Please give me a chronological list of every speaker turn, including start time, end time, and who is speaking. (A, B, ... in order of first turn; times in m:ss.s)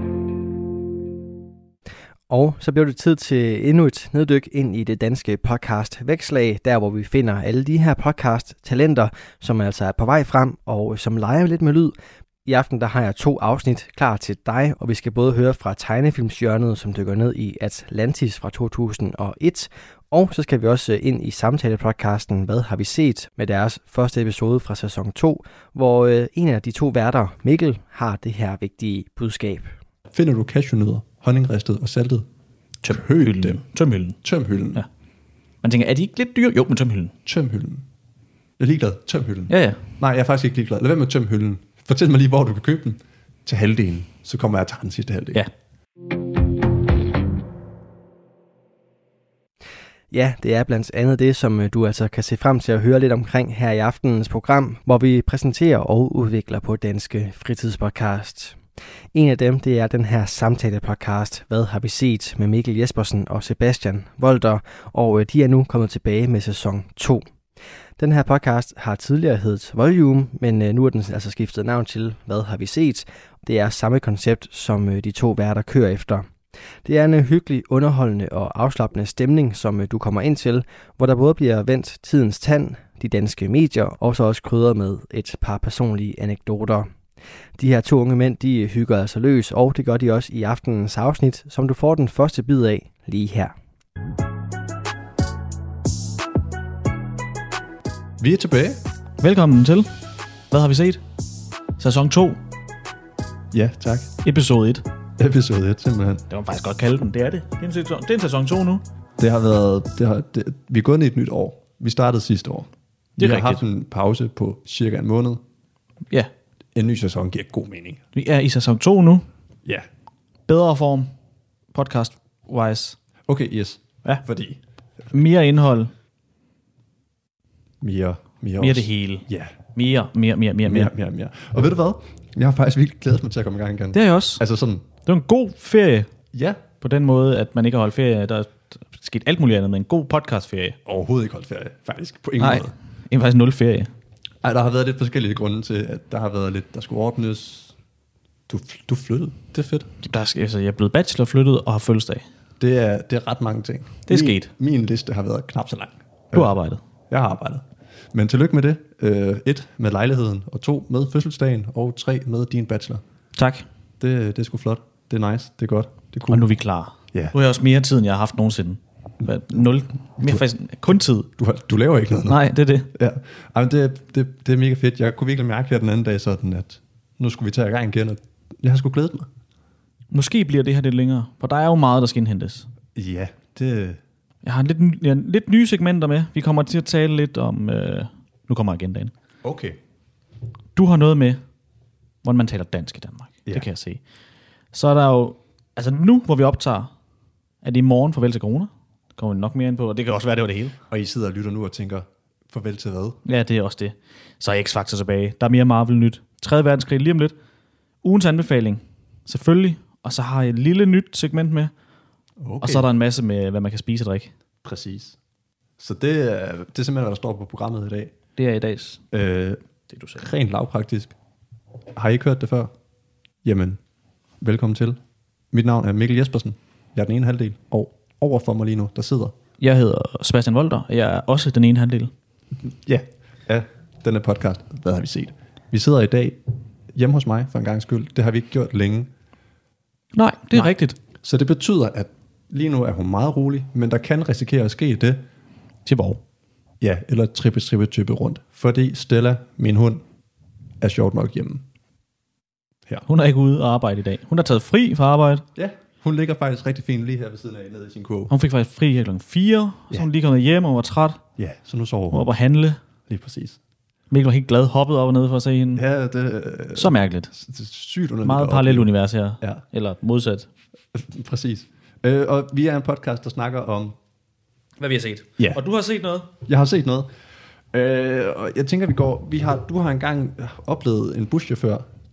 0:02.3-0:11.9 A
0:12.4-0:29.7 A
0:30.1-0:32.3 B
0:32.8-0:34.2 C
0:32.9-0:33.6 B
0:34.2-0:34.8 B
0:35.6-0:37.2 C
0:37.2-0:37.8 B
0:38.6-0:45.4 B
0:39.5-0:39.8 C
0:50.1-0:58.6 A
0:59.1-1:07.2 A
1:08.0-1:16.3 A
1:16.8-1:26.9 A
1:27.6-1:33.5 A
1:38.2-1:38.8 B
1:39.2-1:39.9 C
1:40.5-1:41.0 C
1:41.8-1:42.4 C
1:43.5-1:44.1 B
1:44.2-1:44.8 C
1:45.2-1:46.2 B
1:46.3-1:48.8 C
1:49.2-1:55.4 B
1:53.2-1:53.6 C
1:56.7-1:58.0 B
1:58.1-1:59.2 C
2:00.5-2:01.1 C
2:01.7-2:03.0 C
2:03.3-2:04.6 B
2:05.1-2:05.9 C
2:07.8-2:09.5 B
2:08.6-2:10.9 C
2:10.6-2:14.9 B
2:13.9-2:14.4 C
2:15.0-2:16.1 C
2:16.3-2:16.6 B
2:16.8-2:20.8 C
2:20.8-2:22.7 B
2:22.4-2:23.9 C
2:24.4-2:27.7 B
2:28.5-2:29.9 B
2:30.0-2:32.2 C
2:32.6-2:36.5 B
2:34.1-2:34.5 C
2:36.3-2:36.8 C
2:37.1-2:43.0 B
2:43.4-2:43.6 C
2:44.0-2:46.4 B
2:46.3-2:51.3 C
2:51.4-2:52.4 B
2:52.3-2:52.9 C
2:52.9-2:59.3 B
3:00.1-3:02.7 C
3:02.9-3:04.0 B
3:04.4-3:09.1 C
3:09.4-3:09.8 B
3:10.8-3:11.4 C
3:12.2-3:14.0 C
3:14.7-3:16.9 C
3:17.6-3:20.8 C
3:20.9-3:23.2 B
3:23.2-3:27.3 C
3:28.0-3:31.7 C
3:32.4-3:32.9 B
3:32.6-3:34.3 C
3:34.6-3:35.2 B
3:35.8-3:38.1 B
3:38.4-3:39.0 C
3:39.1-3:39.6 B
3:39.9-3:40.2 C
3:40.2-3:41.1 B
3:41.9-3:42.7 B
3:43.4-3:43.8 B
3:44.4-3:45.0 B
3:45.5-3:49.3 B
3:49.6-3:52.1 C
3:52.6-3:56.4 B
3:56.9-3:59.1 B
4:00.1-4:01.0 C
4:01.2-4:05.2 B
4:05.8-4:06.2 C
4:06.8-4:10.0 B
4:10.8-4:11.6 B
4:13.0-4:15.4 C
4:15.5-4:18.3 B
4:18.3-4:21.2 C
4:21.4-4:22.3 B
4:22.1-4:22.8 C
4:23.1-4:23.6 B
4:24.1-4:25.8 C
4:25.8-4:28.9 B
4:26.7-4:27.3 C
4:28.2-4:30.5 C
4:30.9-4:34.0 B
4:34.8-4:36.3 C
4:36.4-4:37.1 B
4:37.7-4:41.8 B